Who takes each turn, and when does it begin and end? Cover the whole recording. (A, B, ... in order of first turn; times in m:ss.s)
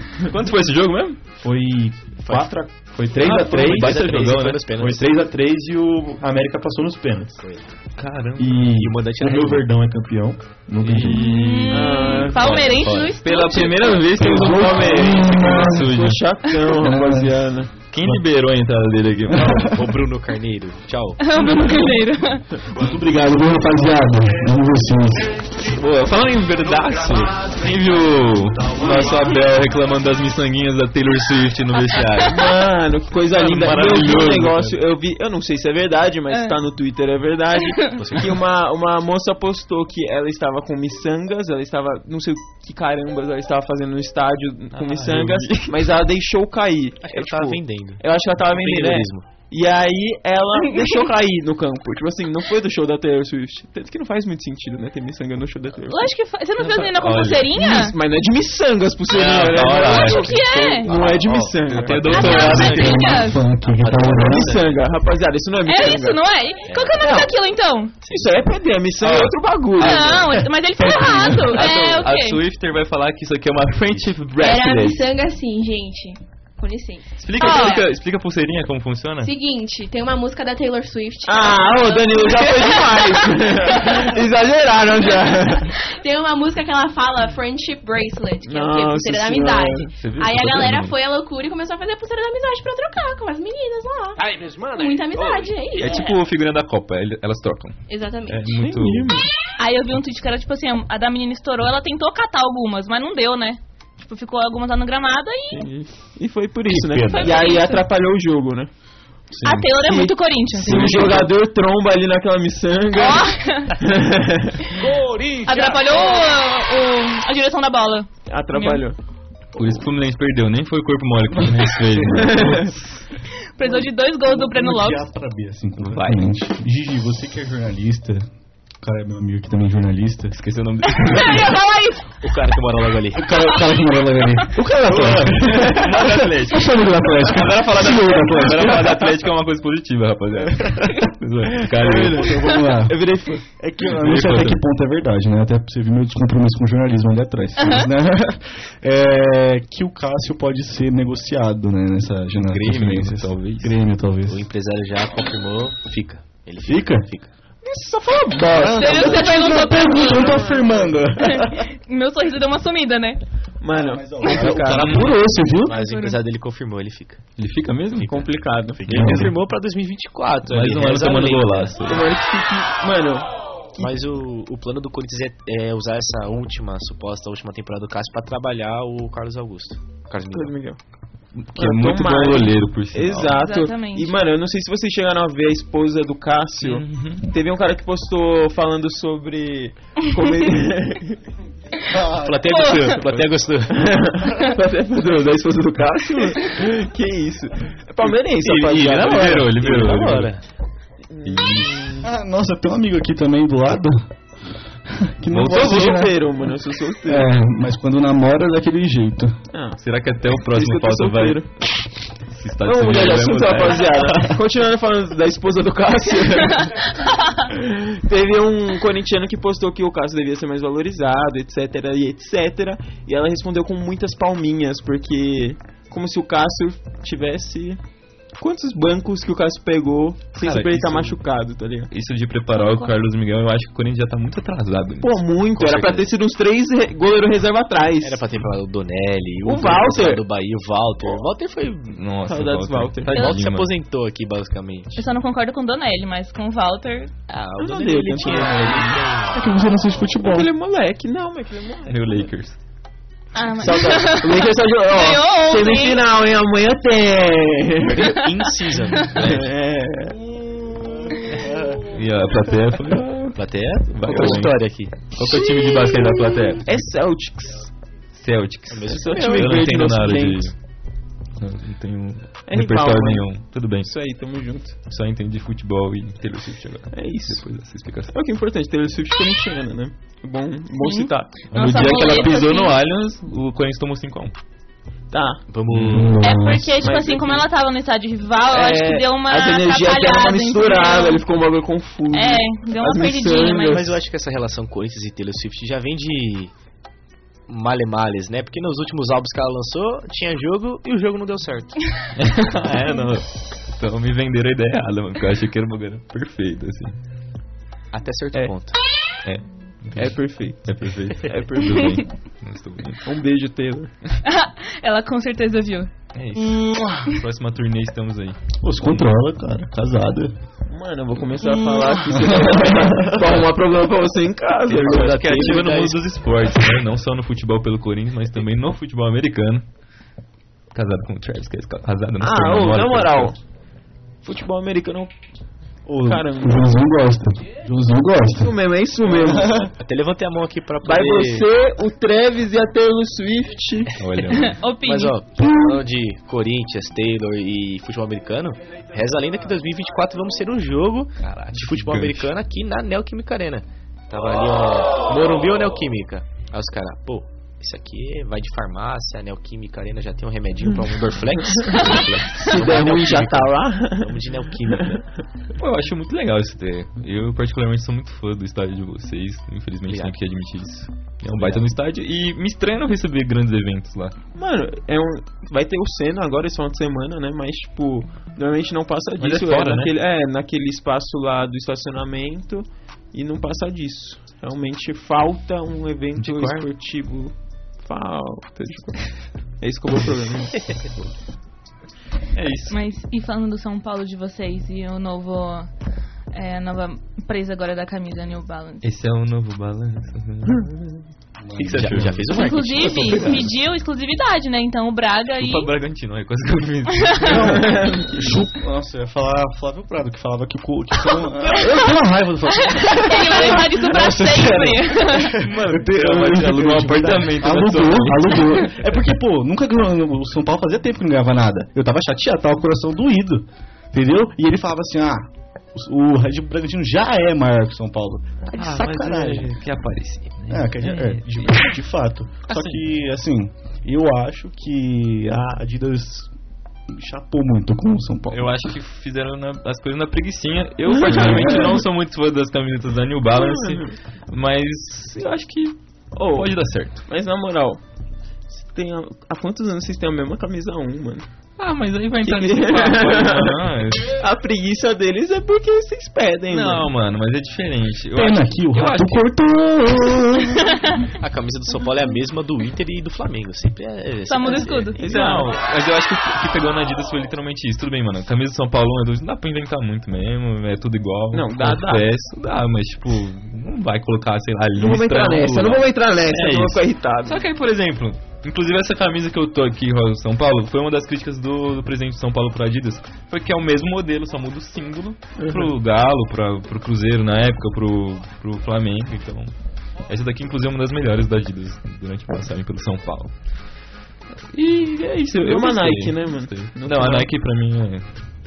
0:00.3-0:01.2 A
0:01.4-0:04.1 B
0:02.2-0:02.6 C
0:03.2-0:04.6 A
0:03.3-0:05.1 C
0:04.7-0:07.4 B
0:07.4-0:07.7 C
0:08.0-0:08.6 A
0:08.4-0:10.4 B
0:08.6-0:09.7 C
0:10.7-0:11.5 D
0:10.9-0:11.8 A
0:11.0-0:14.0 E
0:11.7-0:12.9 F
0:12.4-0:16.2 A
0:12.4-0:13.1 C
0:14.2-0:15.9 D
0:15.4-0:17.7 F
0:16.8-0:17.4 D
0:17.9-0:19.8 A
0:19.3-0:19.6 D
0:19.6-0:21.2 C
0:21.2-0:22.4 E
0:22.7-0:25.4 D
0:25.6-0:32.6 A
0:32.3-0:56.1 F
0:33.3-0:34.8 A
0:36.3-0:36.6 E
0:38.0-0:38.4 C
0:44.7-0:45.9 A
0:47.0-0:49.3 C
0:50.7-0:51.0 E
0:55.8-0:58.0 E
0:56.8-0:57.6 A
0:57.5-1:03.0 F
0:59.1-1:03.0 A
0:59.9-1:00.9 E
1:00.5-1:02.6 C
1:02.1-1:03.4 E
1:02.5-1:04.6 D
1:03.6-1:04.9 C
1:04.1-1:06.2 F
1:05.7-1:07.9 E
1:06.6-1:07.1 C
1:07.0-1:07.3 F
1:08.0-1:08.3 C
1:08.1-1:10.2 F
1:09.0-1:10.4 A
1:09.8-1:12.4 E
1:10.8-1:11.5 D
1:11.1-1:15.0 A
1:14.4-1:17.8 G
1:17.2-1:19.3 A
1:17.4-1:17.8 E
1:19.2-1:23.0 G
1:21.3-1:25.7 F
1:25.8-1:36.2 G
1:28.4-1:29.9 F
1:30.0-1:31.0 A
1:35.8-1:39.2 A
1:37.9-1:38.5 G
1:38.6-1:39.3 F
1:39.6-1:45.7 E
1:45.5-1:48.7 F
1:46.7-1:47.5 A
1:47.1-1:47.8 E
1:49.3-1:49.7 D
1:49.4-1:51.2 E
1:49.8-1:54.9 F
1:50.7-1:51.0 A
1:52.9-1:53.8 E
1:54.9-1:55.6 D
1:55.4-1:58.8 E
1:58.3-1:59.0 F
1:59.6-2:03.1 A
2:02.1-2:02.7 F
2:03.6-2:05.0 E
2:04.2-2:08.3 D
2:05.8-2:06.2 A
2:08.8-2:10.4 D
2:10.3-2:11.6 A
2:11.0-2:12.0 E
2:12.2-2:13.3 C
2:13.1-2:19.1 D
2:14.8-2:22.4 A
2:21.8-2:34.4 D
2:22.2-2:23.5 F
2:23.9-2:24.6 A
2:27.6-2:27.9 E
2:32.5-2:33.8 A
2:34.3-2:37.3 C
2:36.7-2:37.1 D
2:37.6-2:39.4 F
2:38.4-2:41.6 D
2:38.7-2:40.6 E
2:39.9-2:40.8 F
2:41.2-2:43.2 E
2:43.6-2:45.2 F
2:43.7-2:45.8 D
2:44.3-2:45.0 C
2:44.7-2:45.1 A
2:45.6-2:47.2 C
2:45.7-2:46.2 E
2:47.4-2:48.3 A
2:48.0-2:48.8 F
2:48.8-2:51.7 C
2:48.9-2:49.3 A
2:48.9-2:49.3 D
2:50.5-2:52.2 A
2:51.8-2:53.9 F
2:53.8-3:00.6 C
3:00.3-3:00.8 F
3:01.4-3:03.4 A
3:01.6-3:11.2 F
3:03.3-3:04.2 E
3:06.6-3:07.3 A
3:11.9-3:12.4 D
3:12.2-3:13.8 C
3:12.5-3:12.9 E
3:13.7-3:19.8 F
3:18.1-3:20.4 C
3:18.7-3:20.4 A
3:21.1-3:22.0 F
3:21.2-3:21.9 A
3:22.0-3:24.1 D
3:24.9-3:26.2 D
3:25.3-3:26.1 A
3:25.5-3:27.3 F
3:27.0-3:29.4 D
3:29.5-3:29.8 F
3:29.8-3:31.6 A
3:30.4-3:31.5 F
3:32.3-3:34.4 A
3:32.6-3:36.9 F
3:37.5-3:47.8 F
3:48.4-3:51.9 F
3:50.4-3:51.2 A
3:51.9-3:55.2 A
3:52.5-3:52.9 E
3:55.0-3:58.2 F
3:55.6-3:56.1 C
3:58.0-4:02.0 C
3:59.4-4:00.2 F
4:01.9-4:03.7 A
4:02.2-4:03.3 F
4:03.1-4:05.0 C
4:05.0-4:07.1 E
4:07.3-4:09.4 C
4:07.6-4:09.0 F
4:09.3-4:10.5 D
4:10.2-4:12.3 F
4:11.9-4:12.6 A
4:13.4-4:16.0 E
4:13.6-4:18.1 F
4:17.9-4:19.5 C
4:19.1-4:20.2 F
4:21.9-4:23.3 A
4:23.0-4:23.3 F
4:23.4-4:25.1 C
4:23.9-4:26.8 A
4:24.1-4:24.5 F
4:26.6-4:27.7 F
4:28.1-4:30.6 A
4:28.7-4:29.7 C
4:28.9-4:30.5 F
4:31.4-4:33.9 A
4:32.5-4:34.8 F
4:34.8-4:38.1 A
4:36.9-4:37.5 F
4:38.1-4:41.5 F
4:40.8-4:42.8 E
4:41.5-4:44.4 A
4:45.1-4:45.4 F
4:45.5-4:46.2 C
4:45.7-4:46.1 A
4:45.8-4:46.8 D
4:46.2-4:51.2 E
4:46.8-4:47.5 F
4:48.5-4:54.0 F
4:52.1-4:53.8 E
4:53.7-4:56.5 C
4:57.5-5:01.8 C
5:02.2-5:07.0 A
5:07.9-5:08.8 C
5:09.2-5:13.0 A
5:10.0-5:12.0 F
5:13.0-5:14.1 F
5:14.2-5:15.9 E
5:16.1-5:19.0 A
5:16.4-5:16.9 D
5:18.6-5:20.3 D
5:20.7-5:25.6 F
5:22.4-5:22.6 D
5:24.7-5:29.7 A
5:24.7-5:26.0 C
5:30.7-5:33.4 A
5:32.2-5:33.4 F
5:34.2-5:35.1 F
5:35.9-5:38.6 D
5:36.0-5:36.7 F
5:38.3-5:39.7 F
5:39.8-5:41.5 C
5:40.8-5:44.0 F
5:44.0-5:44.6 A
5:44.3-5:45.1 E
5:44.8-6:05.0 C
5:45.4-5:45.8 D
5:51.5-5:52.3 A
6:01.6-6:05.0 F
6:05.6-6:14.2 A
6:09.9-6:10.2 C
6:11.3-6:11.7 C
6:14.4-6:30.8 F
6:19.2-6:20.0 A
6:26.2-6:26.7 A
6:32.3-6:32.8 A
6:32.7-6:35.7 E
6:36.3-6:38.8 E
6:38.8-6:41.0 A
6:41.4-6:42.1 D
6:41.6-6:42.3 A
6:41.7-6:43.4 C
6:42.3-6:45.7 E
6:43.1-6:43.4 A
6:45.4-6:47.7 A
6:47.3-7:09.5 D
6:47.4-6:48.4 F
6:52.7-6:55.3 E
6:55.4-6:58.6 A
7:08.5-7:11.6 A
7:10.5-7:16.3 D
7:12.5-7:12.8 A
7:16.9-7:18.5 D
7:18.3-7:27.0 A
7:20.9-7:21.8 F
7:21.0-7:21.8 D
7:23.3-7:24.0 F
7:26.1-7:26.6 F
7:27.1-7:27.8 F
7:28.5-7:31.3 F
7:31.6-7:34.2 A
7:32.2-7:33.6 F
7:34.2-7:36.9 F
7:36.5-7:39.2 A
7:38.1-7:40.6 D
7:41.2-7:45.0 C
7:44.3-7:45.0 E
7:45.0-7:45.5 F
7:45.0-8:09.5 A
7:51.3-7:52.1 F
7:54.8-7:57.4 F
8:05.4-8:05.8 F
8:10.1-8:13.3 A
8:14.5-8:18.1 A
8:15.4-8:17.3 F